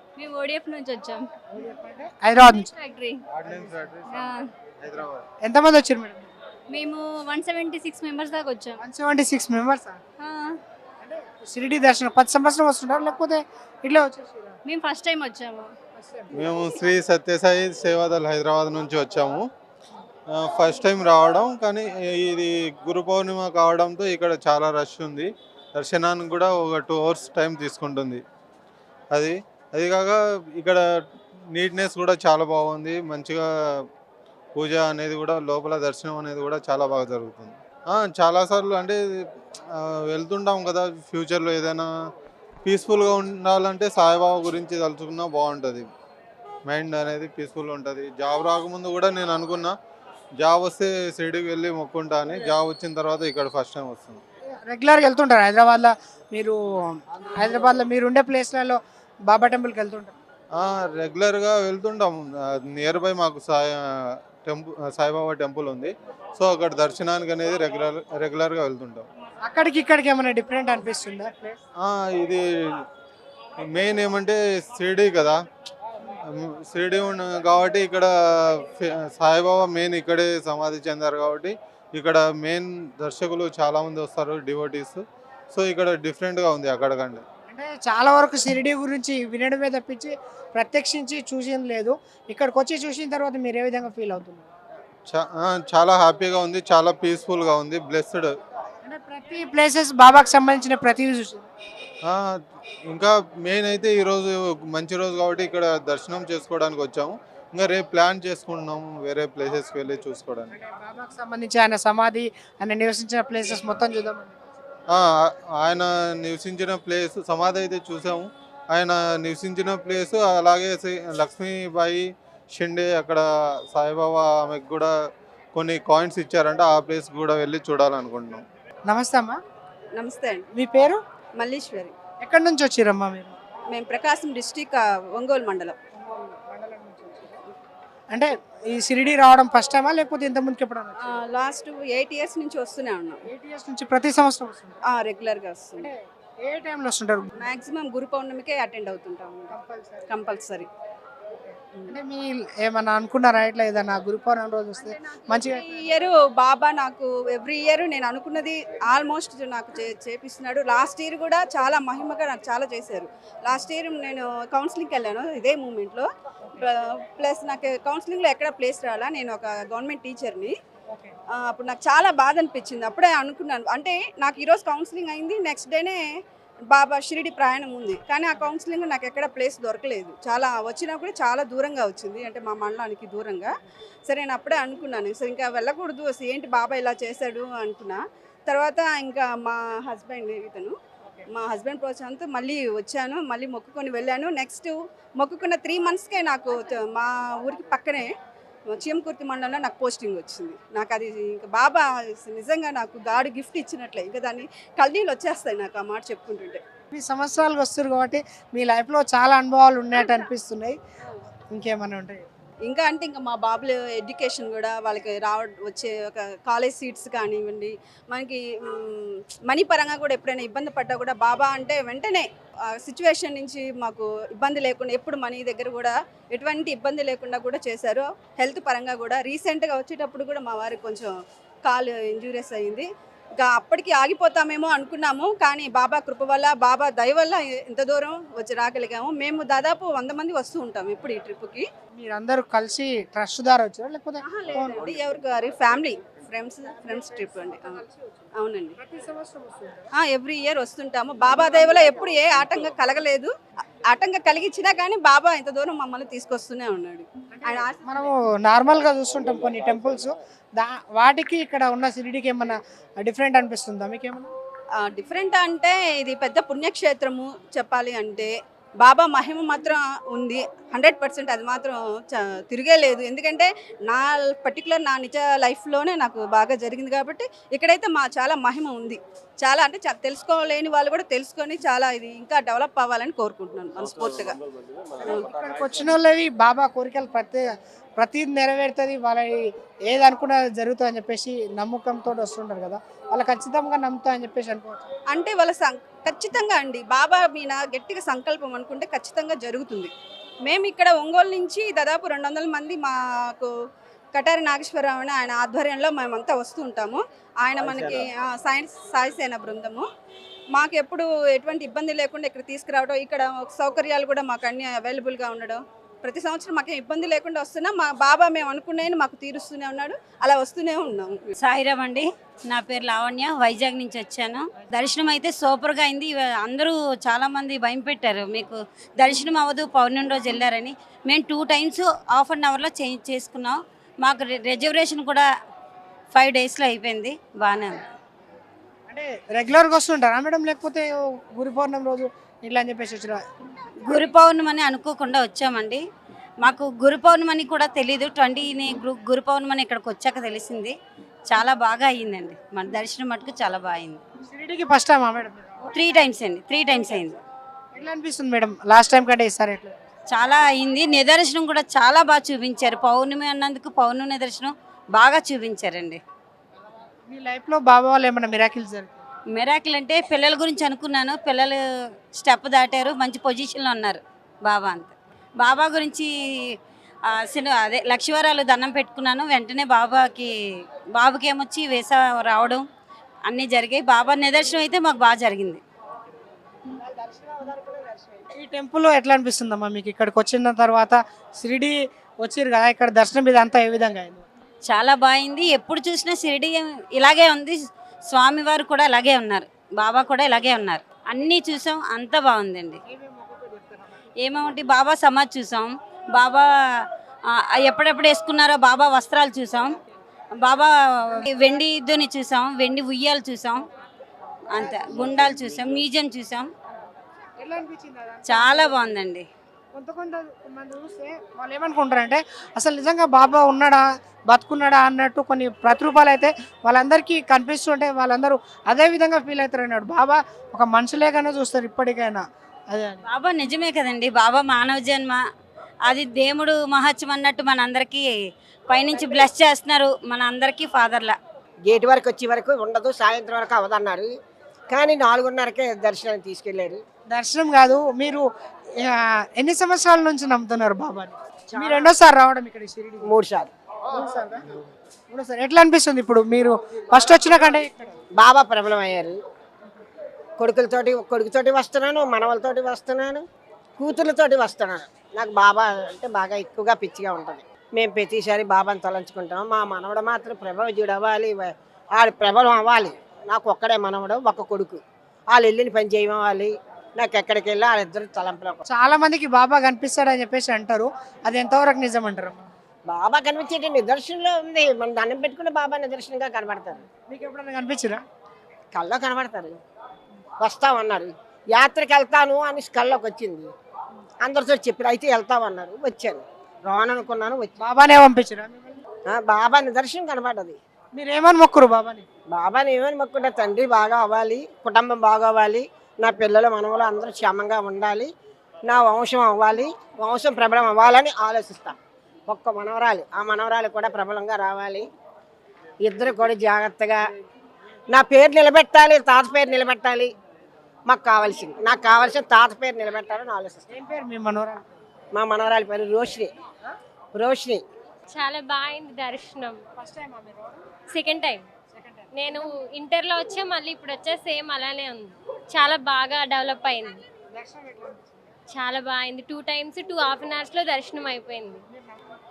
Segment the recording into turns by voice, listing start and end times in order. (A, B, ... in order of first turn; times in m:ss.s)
0:00.2-0:01.3 A
0:01.5-0:02.7 B
0:02.5-0:03.2 A
0:03.3-0:04.3 C
0:04.1-0:04.5 A
0:04.8-0:05.2 C
0:05.4-0:06.3 B
0:06.7-0:08.8 A
0:08.8-0:10.0 B
0:10.2-0:10.6 A
0:11.0-0:14.6 B
0:14.6-0:15.7 A
0:16.0-0:16.3 B
0:16.3-0:19.5 C
0:20.3-0:28.2 C
0:29.1-0:30.8 C
0:31.5-0:33.4 C
0:34.6-0:39.0 C
0:39.8-0:41.9 C
0:42.6-0:45.9 C
0:46.7-0:49.8 C
0:50.4-0:54.2 C
0:54.6-1:00.2 B
1:00.6-1:09.1 C
1:09.4-1:11.6 B
1:11.8-1:12.4 C
1:13.6-1:15.4 C
1:16.3-1:27.2 C
1:27.5-1:34.5 B
1:35.1-1:38.3 C
1:38.8-1:41.5 B
1:42.0-1:42.4 C
1:42.9-1:50.5 C
1:50.5-1:54.4 B
1:54.9-2:04.9 C
2:05.5-2:08.4 C
2:08.9-2:09.4 B
2:10.0-2:10.4 D
2:10.5-2:11.0 B
2:11.4-2:11.9 D
2:12.2-2:13.4 B
2:13.7-2:15.8 D
2:16.0-2:17.4 B
2:18.1-2:21.2 B
2:21.0-2:23.2 D
2:23.3-2:24.8 B
2:24.9-2:25.9 D
2:25.8-2:27.5 B
2:27.4-2:29.5 D
2:29.5-2:30.1 B
2:30.1-2:30.7 D
2:31.9-2:35.8 B
2:34.8-2:46.1 D
2:46.6-2:50.5 D
2:51.5-2:56.0 D
2:56.7-3:03.5 D
3:04.1-3:10.8 D
3:11.4-3:18.1 D
3:18.7-3:26.6 D
3:26.9-3:30.8 B
3:31.5-3:32.2 B
3:32.7-3:51.1 D
3:51.7-3:52.9 D
3:53.4-4:01.6 D
4:02.0-4:04.8 B
4:04.2-4:07.8 D
4:06.7-4:08.2 B
4:08.4-4:08.8 D
4:08.8-4:09.9 B
4:10.0-4:13.3 D
4:13.9-4:18.1 D
4:17.3-4:24.3 B
4:24.8-4:28.3 D
4:28.8-4:44.4 D
4:45.0-4:47.5 B
4:45.0-4:45.3 D
4:48.0-4:54.9 B
4:55.1-4:59.9 D
5:00.4-5:03.5 D
5:04.1-5:09.9 D
5:07.6-5:08.1 E
5:10.6-5:21.3 D
5:21.4-5:35.3 F
5:36.1-5:37.8 F
5:38.9-5:43.2 B
5:43.8-5:45.8 F
5:46.4-5:50.8 F
5:51.3-5:54.0 F
5:54.2-5:56.0 B
5:55.7-5:57.2 F
5:56.7-5:57.1 B
5:57.7-5:59.8 B
6:00.1-6:06.0 F
6:07.1-6:09.0 B
6:09.3-6:11.6 F
6:12.1-6:16.1 F
6:17.1-6:20.3 F
6:21.0-6:22.6 F
6:23.3-6:25.6 F
6:27.0-6:34.3 B
6:34.6-6:37.6 F
6:38.1-6:42.8 F
6:42.9-6:44.0 B
6:44.2-6:46.5 F
6:47.6-6:49.8 F
6:50.4-6:53.7 F
6:54.5-6:56.5 F
6:54.6-6:55.2 B
6:57.4-6:58.9 B
6:58.3-6:59.3 F
6:59.7-7:13.0 B
7:13.0-7:15.2 F
7:15.9-7:18.1 F
7:18.7-7:21.2 F
7:21.6-7:24.1 E
7:24.7-7:26.8 E
7:27.1-7:28.3 B
7:28.8-7:33.2 B
7:31.5-7:31.9 E
7:33.0-7:33.5 E
7:33.9-7:34.6 B
7:35.1-7:38.0 B
7:38.2-7:39.2 E
7:40.4-7:43.2 E
7:43.8-7:58.6 E
7:58.7-8:02.4 B
8:02.9-8:06.9 E
8:07.1-8:08.0 B
8:08.7-8:09.6 E
8:10.4-8:13.5 E
8:14.2-8:17.6 E
8:17.6-8:18.8 B
8:19.1-8:20.6 E
8:20.9-8:22.1 B
8:22.3-8:28.1 E
8:28.7-8:31.8 E
8:32.3-8:34.9 E
8:35.8-8:37.0 E
8:37.9-8:40.1 E
8:40.9-8:43.7 E
8:43.7-8:44.8 B
8:45.1-8:46.3 E
8:47.1-8:47.6 E
8:48.1-8:49.6 G
8:49.8-8:50.6 B
8:50.9-8:51.5 G
8:51.7-8:52.5 B
8:52.1-8:57.0 G
8:57.3-8:58.2 B
8:58.5-9:01.6 G